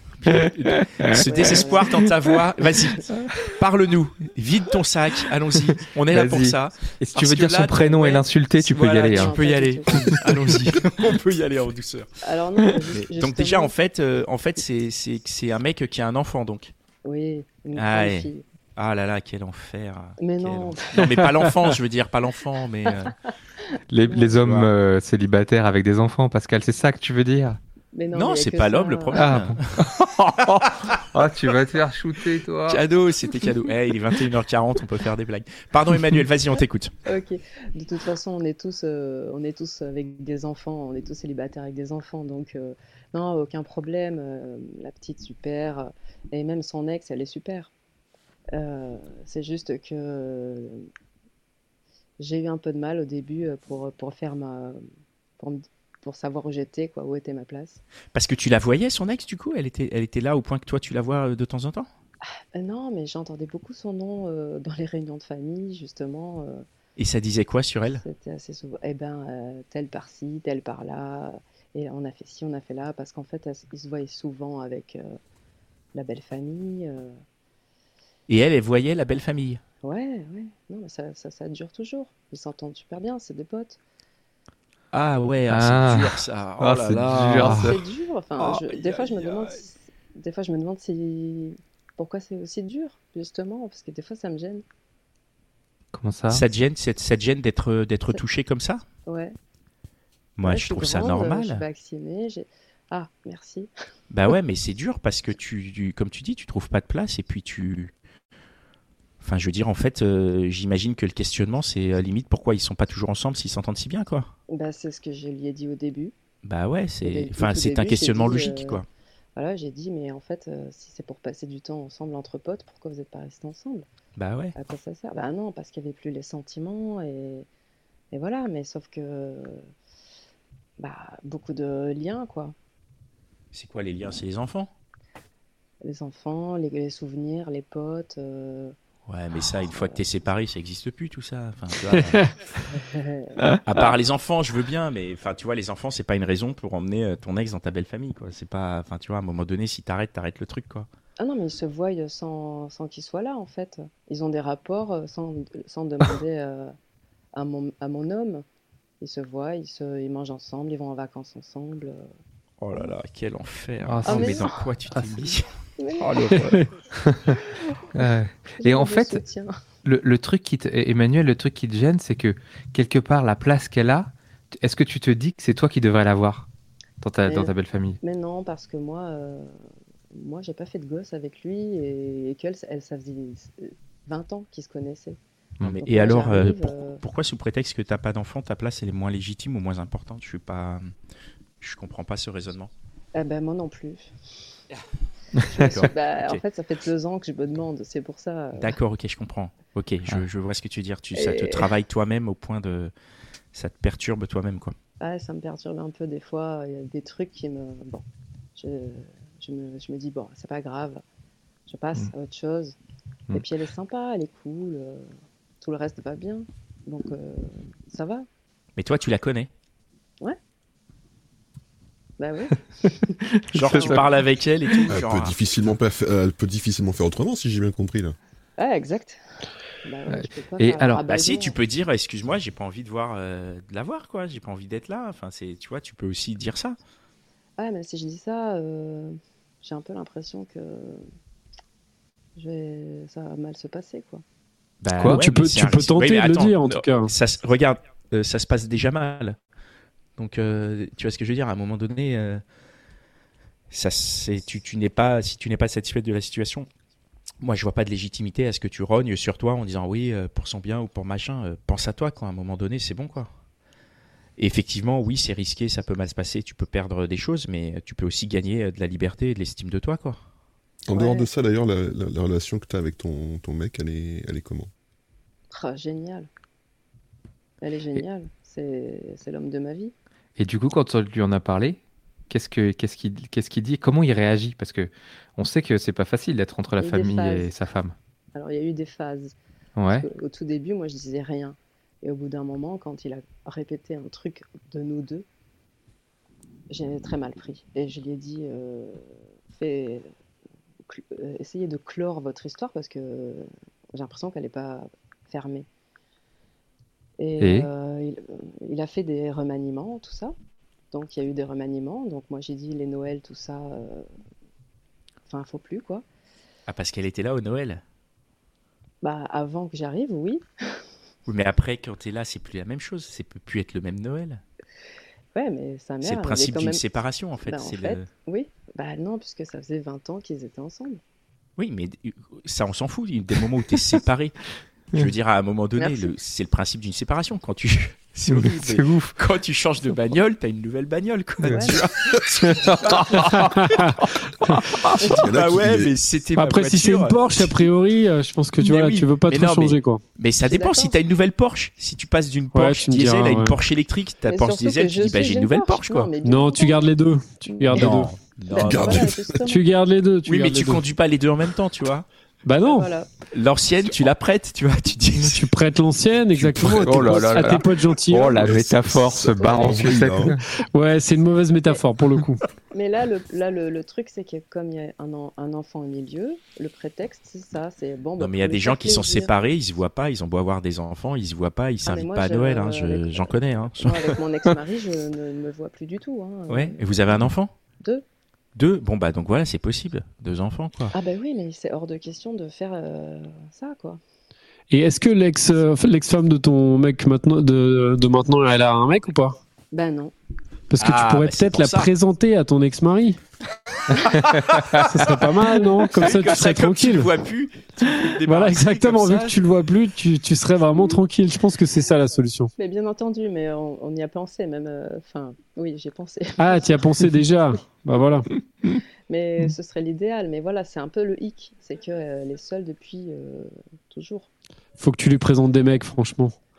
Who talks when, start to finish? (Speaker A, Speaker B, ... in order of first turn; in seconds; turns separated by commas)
Speaker A: 0.2-12.1, Speaker B: 1.3-2.1, Speaker C: 6.1-9.3, Speaker B: 9.1-10.2, Speaker B: 12.2-13.7, Speaker A: 12.9-16.7, Speaker B: 17.0-18.4, Speaker A: 17.7-23.1, Speaker B: 20.2-21.2, Speaker C: 23.9-27.6, Speaker B: 24.1-24.4, Speaker A: 24.4-24.7, Speaker B: 27.9-29.2, Speaker A: 28.1-29.8, Speaker C: 29.1-32.8, Speaker A: 32.7-36.9, Speaker B: 37.1-47.7, Speaker B: 48.5-50.9, Speaker B: 52.2-54.8, Speaker B: 55.4-57.8, Speaker A: 58.1-61.9, Speaker B: 62.5-66.7, Speaker A: 67.0-68.0, Speaker B: 68.0-75.2, Speaker B: 75.9-77.2, Speaker A: 78.3-79.6, Speaker B: 79.8-83.8, Speaker A: 84.9-87.8, Speaker C: 85.5-87.7, Speaker B: 87.4-94.6, Speaker A: 88.4-89.6, Speaker C: 95.9-96.4, Speaker A: 96.3-98.8, Speaker B: 99.1-99.4, Speaker A: 100.4-101.6, Speaker B: 100.4-103.7, Speaker A: 104.1-107.9, Speaker A: 109.2-114.3, Speaker B: 114.5-116.1, Speaker A: 116.4-118.8, Speaker B: 117.0-118.8, Speaker B: 119.4-123.9, Speaker A: 124.2-124.5, Speaker B: 124.6-127.5, Speaker B: 128.1-129.7, Speaker B: 130.8-132.6, Speaker A: 133.5-134.7, Speaker B: 135.8-138.8, Speaker A: 139.1-142.3, Speaker B: 139.7-140.0, Speaker B: 142.7-143.4, Speaker A: 143.7-150.9, Speaker B: 151.2-156.7, Speaker B: 157.3-158.4, Speaker B: 159.0-162.1, Speaker A: 162.6-165.5, Speaker C: 163.9-164.6, Speaker B: 164.1-164.6, Speaker B: 165.8-166.3, Speaker A: 166.0-166.7, Speaker C: 167.1-167.4, Speaker C: 167.9-169.2, Speaker B: 168.6-169.5, Speaker C: 169.8-176.5, Speaker C: 177.0-178.0, Speaker B: 177.2-179.5, Speaker B: 180.1-185.2, Speaker A: 185.6-190.9, Speaker B: 185.8-187.0, Speaker A: 191.6-192.7, Speaker B: 193.2-194.1, Speaker B: 195.5-198.8, Speaker A: 195.6-196.4, Speaker A: 198.6-202.9, Speaker B: 201.2-201.7, Speaker A: 203.5-204.8, Speaker B: 205.0-208.1, Speaker B: 208.6-211.0, Speaker B: 211.7-212.8, Speaker B: 213.3-215.1, Speaker B: 215.6-218.3, Speaker A: 218.8-219.5, Speaker B: 222.2-224.1, Speaker C: 223.3-224.0, Speaker A: 223.5-225.4, Speaker D: 224.9-228.2, Speaker B: 228.6-229.2, Speaker B: 229.8-231.6, Speaker C: 230.1-231.0, Speaker A: 231.1-236.8, Speaker B: 237.6-241.1, Speaker B: 242.4-244.2, Speaker A: 244.8-249.4, Speaker E: 245.0-247.1, Speaker A: 250.2-252.4, Speaker A: 253.7-256.7, Speaker A: 257.4-263.3, Speaker A: 264.4-270.2, Speaker D: 270.9-274.7, Speaker B: 270.9-271.3, Speaker B: 275.5-276.3, Speaker B: 277.6-279.9, Speaker C: 280.4-281.8, Speaker C: 282.3-287.9, Speaker B: 286.8-287.5, Speaker B: 288.3-289.4, Speaker C: 289.8-290.1, Speaker B: 289.9-295.3, Speaker B: 296.7-300.1, Speaker B: 300.9-305.7, Speaker B: 307.2-310.4, Speaker C: 307.4-307.7, Speaker B: 310.9-314.1, Speaker B: 315.3-316.1, Speaker A: 316.7-317.8, Speaker B: 319.0-320.8, Speaker A: 321.3-324.4, Speaker B: 325.4-326.8, Speaker A: 326.0-328.1, Speaker B: 327.4-331.0, Speaker A: 331.6-334.4, Speaker A: 334.9-347.6, Speaker B: 335.8-336.1, Speaker C: 338.3-339.1, Speaker C: 341.4-341.7, Speaker B: 341.4-341.8, Speaker C: 342.4-343.5, Speaker E: 343.4-343.9, Speaker D: 345.0-345.9, Speaker E: 346.4-350.0, Speaker A: 348.6-356.1, Speaker B: 350.5-351.0, Speaker E: 352.5-353.6, Speaker B: 354.3-359.7, Speaker E: 356.2-358.2, Speaker A: 357.7-359.1, Speaker D: 358.5-359.4, Speaker E: 359.5-360.8, Speaker A: 360.2-362.1, Speaker E: 362.4-362.9, Speaker B: 362.6-363.1, Speaker A: 363.3-365.5, Speaker E: 365.2-368.4, Speaker D: 366.6-367.4, Speaker C: 366.8-370.4, Speaker D: 368.2-370.4, Speaker B: 369.4-369.8, Speaker E: 370.7-372.4, Speaker B: 372.7-379.3, Speaker A: 378.2-384.2, Speaker B: 381.9-387.3, Speaker A: 386.5-387.5, Speaker A: 388.6-390.9, Speaker B: 390.9-394.0, Speaker E: 394.7-399.4, Speaker B: 399.7-400.1, Speaker E: 400.7-403.2, Speaker A: 400.8-401.9, Speaker A: 404.1-405.3, Speaker E: 404.8-407.1, Speaker A: 405.9-409.4, Speaker E: 408.2-412.5, Speaker B: 412.6-417.0, Speaker E: 416.4-418.3, Speaker B: 419.1-424.3, Speaker E: 424.8-426.4